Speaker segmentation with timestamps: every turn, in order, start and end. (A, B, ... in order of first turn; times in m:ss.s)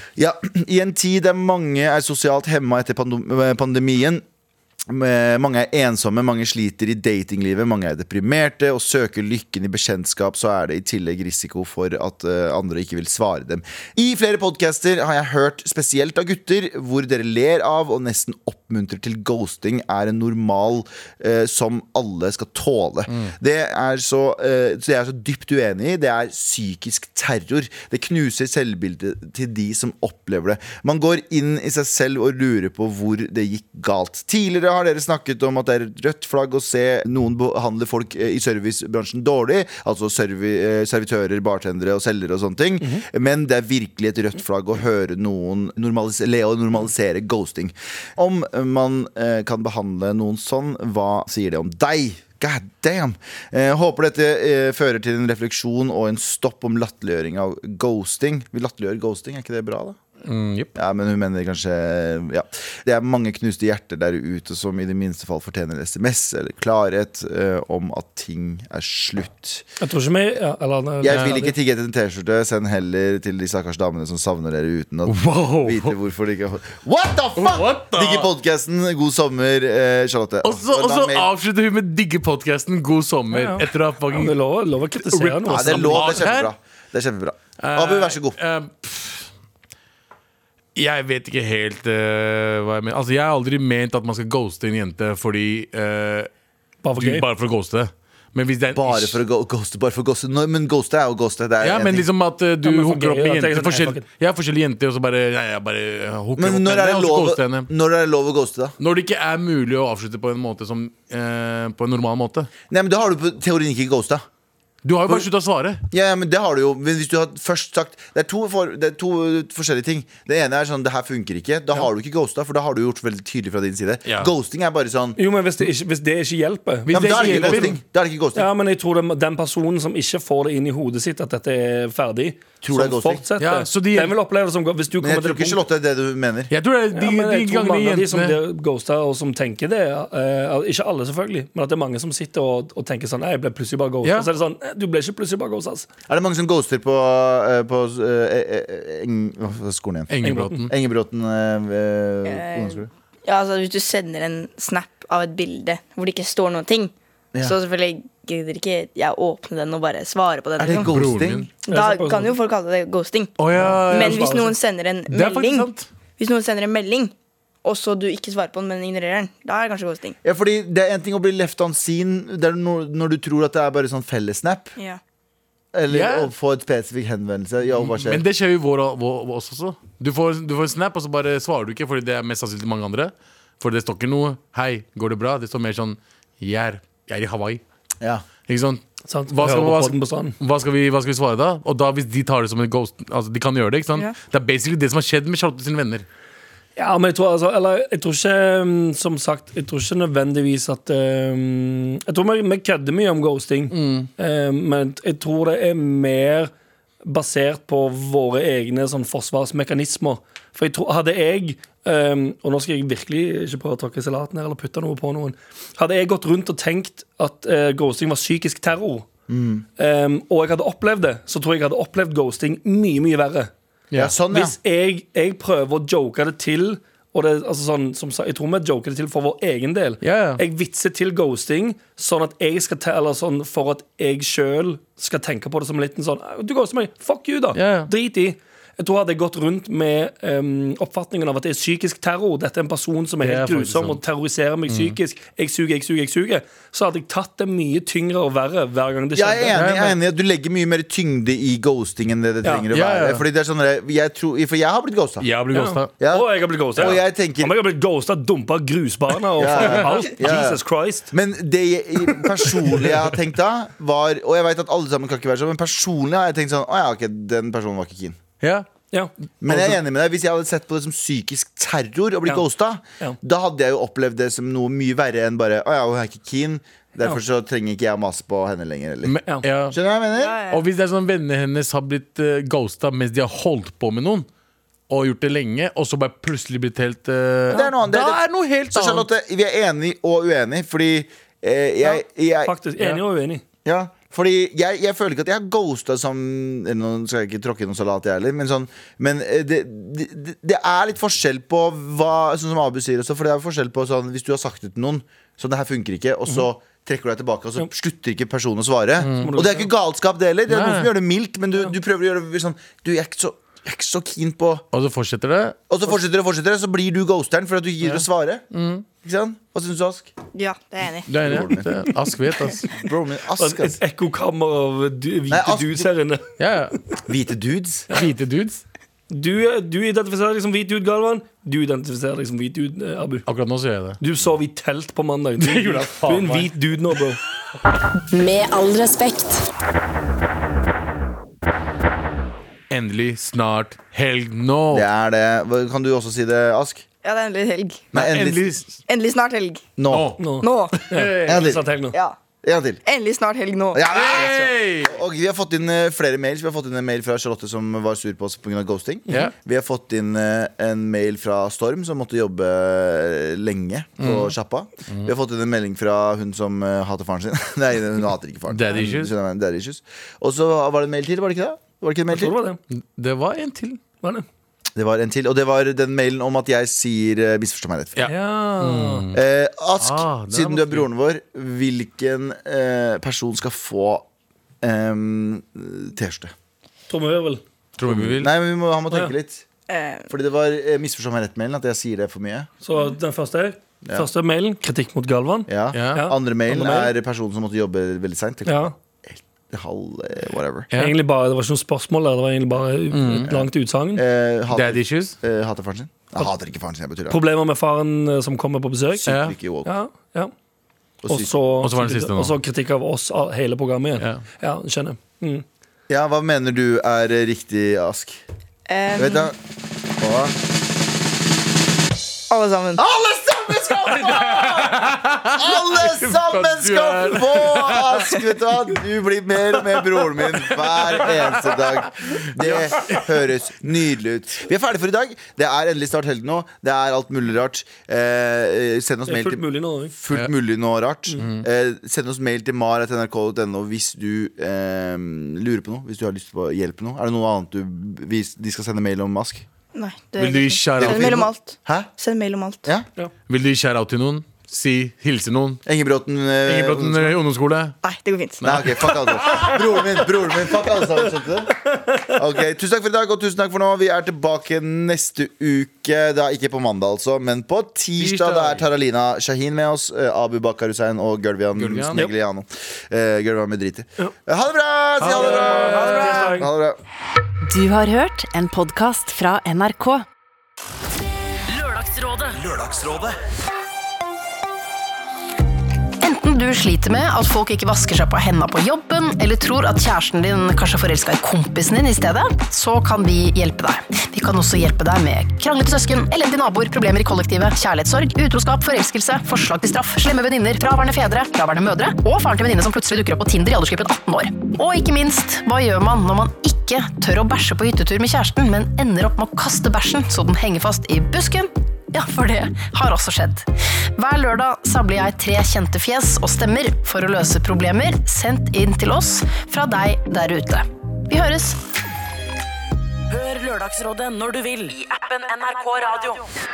0:00.2-0:04.2 A
0:04.9-1:00.0 A
1:00.2-1:00.7 B
1:00.8-1:09.7 A
1:09.8-1:11.6 C
1:11.0-1:21.3 A
1:15.1-1:16.0 B
1:17.4-1:18.3 B
1:20.4-1:24.4 B
1:23.3-1:26.2 C
1:25.1-1:26.5 B
1:25.5-1:28.4 A
1:27.6-1:29.3 B
1:30.8-1:36.3 B
1:36.8-1:37.3 C
1:37.0-1:39.2 B
1:38.7-1:42.1 A
1:41.6-1:47.7 B
1:42.6-1:44.1 C
1:46.4-1:48.8 A
1:48.8-1:52.5 B
1:52.7-1:54.2 A
1:54.8-1:55.8 B
1:55.9-2:05.2 A
2:04.1-2:04.3 B
2:05.2-2:07.8 C
2:06.9-2:07.8 B
2:06.9-2:08.5 A
2:08.4-2:15.6 C
2:12.6-2:13.2 A
2:13.4-2:14.2 B
2:15.0-2:16.5 A
2:16.5-2:18.4 B
2:16.9-2:25.9 C
2:24.0-2:24.3 B
2:26.1-2:32.9 A
2:30.1-2:30.7 B
2:30.2-2:30.7 C
2:32.3-2:40.9 D
2:40.6-2:41.5 A
2:40.6-2:41.5 B
2:41.7-2:43.3 D
2:41.7-2:42.4 C
2:43.4-2:44.4 B
2:43.6-2:44.5 C
2:43.9-2:50.2 D
2:45.1-2:45.9 B
2:50.2-2:54.7 A
2:55.7-2:58.2 A
2:55.9-2:56.3 B
2:57.7-3:07.6 B
3:08.5-3:16.0 B
3:09.1-3:10.4 C
3:16.8-3:26.5 C
3:23.7-3:24.1 B
3:27.0-3:39.1 C
3:39.3-3:39.6 A
3:39.8-3:43.5 C
3:44.0-3:44.6 A
3:44.3-4:09.6 C
3:50.0-3:50.4 B
3:57.6-3:57.9 B
4:03.2-4:04.0 B
4:04.7-4:05.0 B
4:09.2-4:15.3 A
4:09.5-4:10.0 B
4:12.7-4:13.2 B
4:15.2-4:15.9 B
4:15.5-4:21.1 C
4:16.0-4:17.6 A
4:19.4-4:28.2 A
4:22.2-4:22.9 C
4:28.4-4:28.7 B
4:28.9-4:29.8 C
4:29.4-4:39.2 A
4:39.0-4:39.8 B
4:39.7-4:40.4 A
4:40.2-4:40.7 D
4:40.5-4:44.3 B
4:44.9-4:49.1 B
4:47.5-4:48.2 A
4:48.7-4:52.5 A
4:52.4-4:53.4 C
4:53.6-5:14.6 A
5:09.0-5:09.4 B
5:09.1-5:09.7 C
5:10.5-5:10.9 B
5:14.7-5:15.6 B
5:15.7-5:18.4 A
5:18.5-5:18.9 B
5:19.0-5:20.1 A
5:20.3-5:21.1 D
5:21.1-5:22.6 B
5:21.2-5:21.8 A
5:22.7-5:23.8 A
5:23.4-5:26.3 C
5:25.3-5:25.9 A
5:26.4-5:26.8 B
5:27.1-5:27.9 A
5:27.9-5:28.6 B
5:29.1-5:33.3 C
5:33.3-5:34.0 B
5:34.0-5:37.2 C
5:35.4-5:36.5 B
5:38.1-5:39.4 E
5:38.2-5:38.8 F
5:42.7-5:44.9 B
5:44.7-5:46.8 A
5:47.0-5:47.9 D
5:47.9-5:48.6 A
5:47.9-5:48.7 B
5:48.9-5:49.7 D
5:49.8-5:50.2 A
5:49.9-5:50.2 B
5:50.2-5:52.0 C
5:50.4-5:50.8 D
5:50.8-5:51.4 B
5:51.3-5:51.7 A
5:52.4-5:52.8 A
5:52.9-5:53.9 D
5:53.7-6:12.3 A
5:53.9-5:55.0 B
6:04.0-6:04.3 B
6:08.5-6:09.1 B
6:12.1-6:12.6 C
6:12.8-6:13.8 B
6:14.8-6:18.0 A
6:18.0-6:19.2 B
6:18.0-6:19.1 C
6:19.1-6:24.1 A
6:19.8-6:20.9 B
6:24.6-6:26.3 A
6:26.9-6:27.4 C
6:27.8-6:28.3 B
6:27.8-6:29.4 A
6:29.7-6:30.1 D
6:30.1-6:32.5 A
6:32.6-6:36.9 C
6:33.8-6:34.1 A
6:35.5-6:40.7 A
6:35.7-6:36.1 B
6:38.5-6:38.7 C
6:40.7-6:41.0 B
6:40.8-6:44.0 C
6:42.9-6:43.3 B
6:43.2-6:47.2 A
6:44.5-6:45.2 B
6:47.1-6:49.1 C
6:49.0-6:49.7 A
6:49.1-6:49.4 B
6:49.6-6:50.3 C
6:51.0-6:51.3 A
6:51.1-6:55.4 C
6:51.6-6:52.4 B
6:55.9-6:58.2 A
6:58.7-6:59.3 D
6:59.0-6:59.4 A
7:00.0-7:00.4 A
7:02.3-7:02.8 D
7:02.8-7:29.5 A
7:03.9-7:05.5 B
7:06.2-7:08.0 B
7:11.0-7:11.4 B
7:12.1-7:13.1 B
7:19.1-7:20.0 C
7:21.2-7:21.4 B
7:29.7-7:32.7 D
7:30.2-7:31.3 B
7:30.8-7:31.9 A
7:33.3-7:35.6 B
7:35.7-7:37.2 A
7:36.4-7:37.8 B
7:37.8-7:38.4 D
7:38.4-7:39.6 B
7:38.4-7:56.8 A
7:48.0-7:48.6 B
7:51.6-7:52.0 B
7:55.0-7:56.5 B
7:55.0-7:56.5 C
7:57.4-8:00.0 F
8:01.8-8:02.3 G
8:02.4-8:03.2 A
8:06.0-8:33.4 E
8:34.0-8:41.6 E
8:43.1-8:44.7 F
8:43.2-8:46.2 G